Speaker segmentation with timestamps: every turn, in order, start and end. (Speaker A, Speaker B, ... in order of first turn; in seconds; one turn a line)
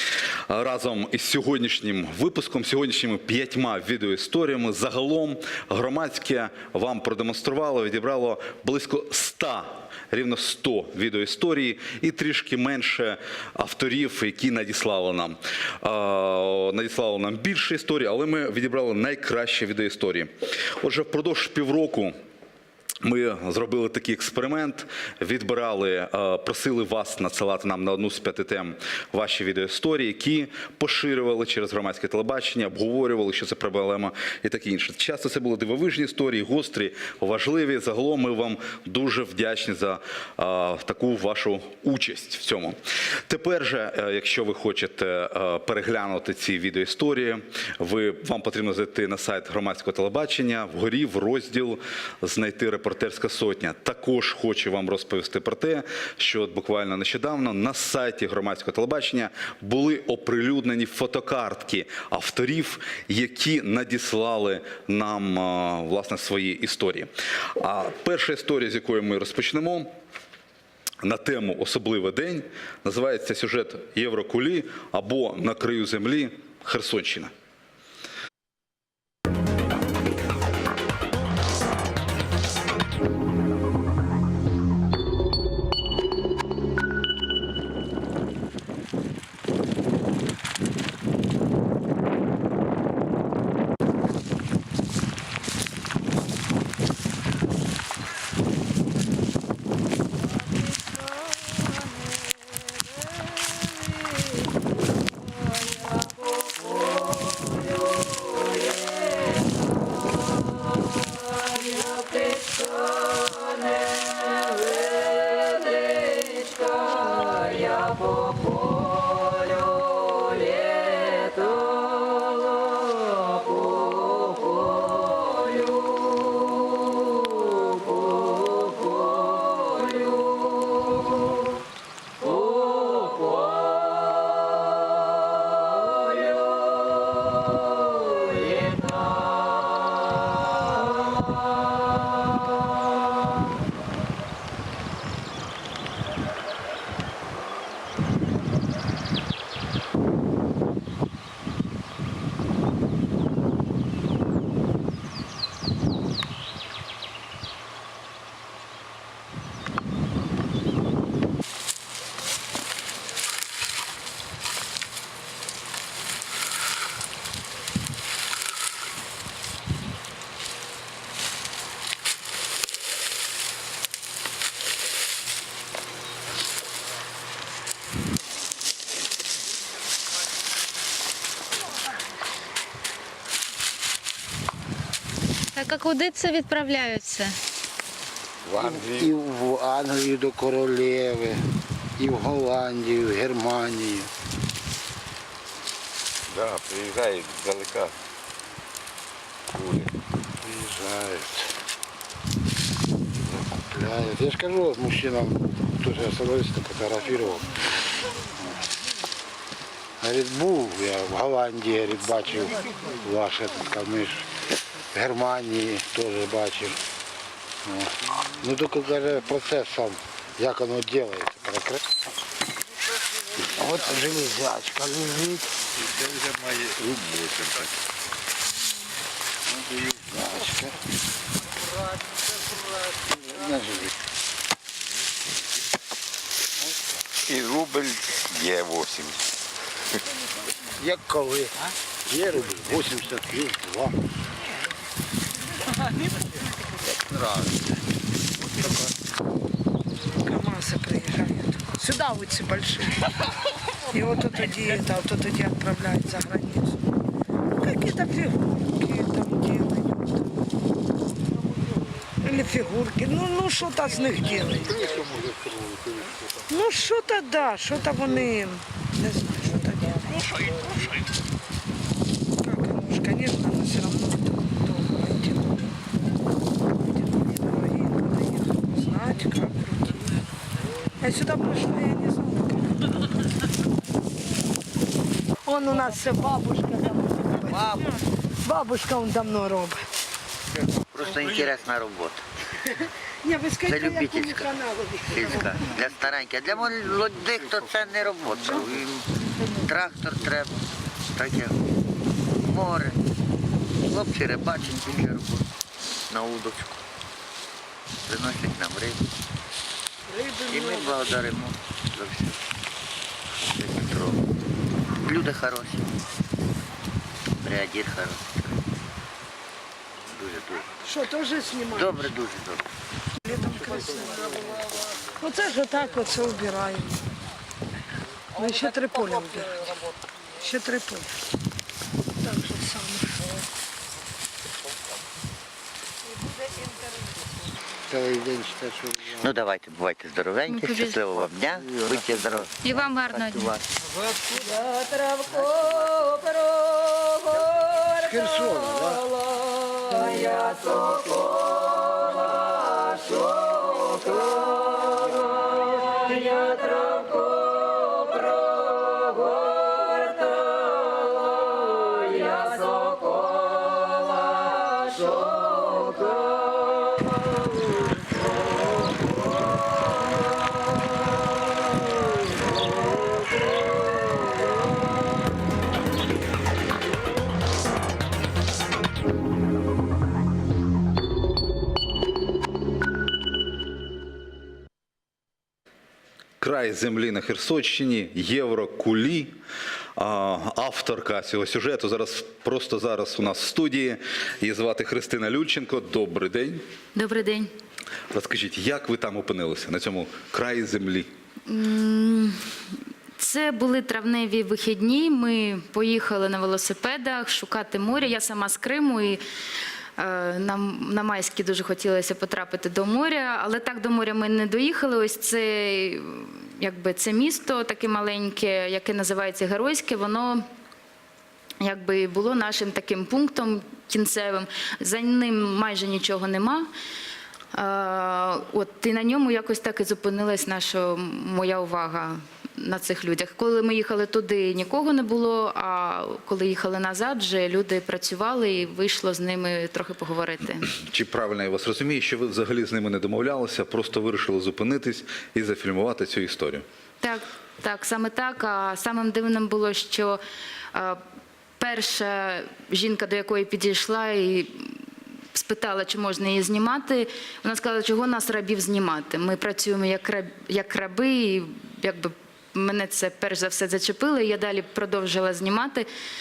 Speaker A: 0.5-22.1
Speaker A: 23.0-69.9
Speaker A: 71.0-77.3
Speaker B: 185.6-187.4
Speaker C: 188.5-189.1
Speaker D: 188.5-191.4
Speaker D: 192.0-194.1
Speaker C: 196.3-197.9
Speaker C: 199.5-199.9
Speaker D: 200.4-201.5
Speaker D: 203.7-207.6
Speaker D: 210.0-214.3
Speaker D: 214.9-216.8
Speaker D: 217.7-221.8
Speaker D: 223.4-225.5
Speaker C: 225.8-227.7
Speaker D: 229.6-230.8
Speaker D: 233.1-233.9
Speaker C: 237.3-239.2
Speaker D: 240.8-244.0
Speaker E: 250.1-253.1
Speaker E: 253.9-256.8
Speaker E: 257.6-260.5
Speaker E: 262.2-265.1
Speaker E: 266.5-270.7
Speaker E: 272.4-275.8
Speaker E: 276.6-280.1
Speaker E: 281.0-282.8
Speaker E: 285.4-289.9
Speaker F: 287.5-287.9
Speaker F: 290.8-292.2
Speaker E: 293.2-295.2
Speaker F: 293.6-300.6
Speaker F: 301.1-301.6
Speaker F: 302.4-303.0
Speaker F: 303.8-305.5
Speaker F: 306.1-306.8
Speaker F: 308.1-309.0
Speaker E: 310.2-310.6
Speaker F: 310.4-312.4
Speaker F: 313.5-314.3
Speaker F: 315.0-315.9
Speaker F: 317.4-318.6
Speaker F: 320.1-320.7
Speaker E: 320.9-322.0
Speaker F: 321.7-322.6
Speaker E: 323.2-324.4
Speaker E: 325.2-327.1
Speaker E: 328.3-329.8
Speaker E: 330.4-331.1
Speaker E: 332.2-333.5
Speaker D: 337.9-339.4
Speaker F: 339.2-343.6
Speaker B: 340.5-341.0
Speaker B: 342.6-343.6
Speaker F: 345.6-346.0
Speaker D: 347.9-349.1
Speaker B: 362.2-362.9
Speaker A: 386.4-389.4
Speaker A: 390.0-396.6
Speaker B: 396.9-397.5
Speaker A: 398.1-401.1
Speaker B: 401.5-402.6
Speaker B: 403.2-409.2
Speaker B: 410.0-420.4
Speaker B: 421.6-426.7
Speaker B: 427.5-440.7
Speaker A: 440.8-446.6
Speaker B: 447.0-450.2
Speaker B: 450.7-451.0
Speaker B: 451.6-465.9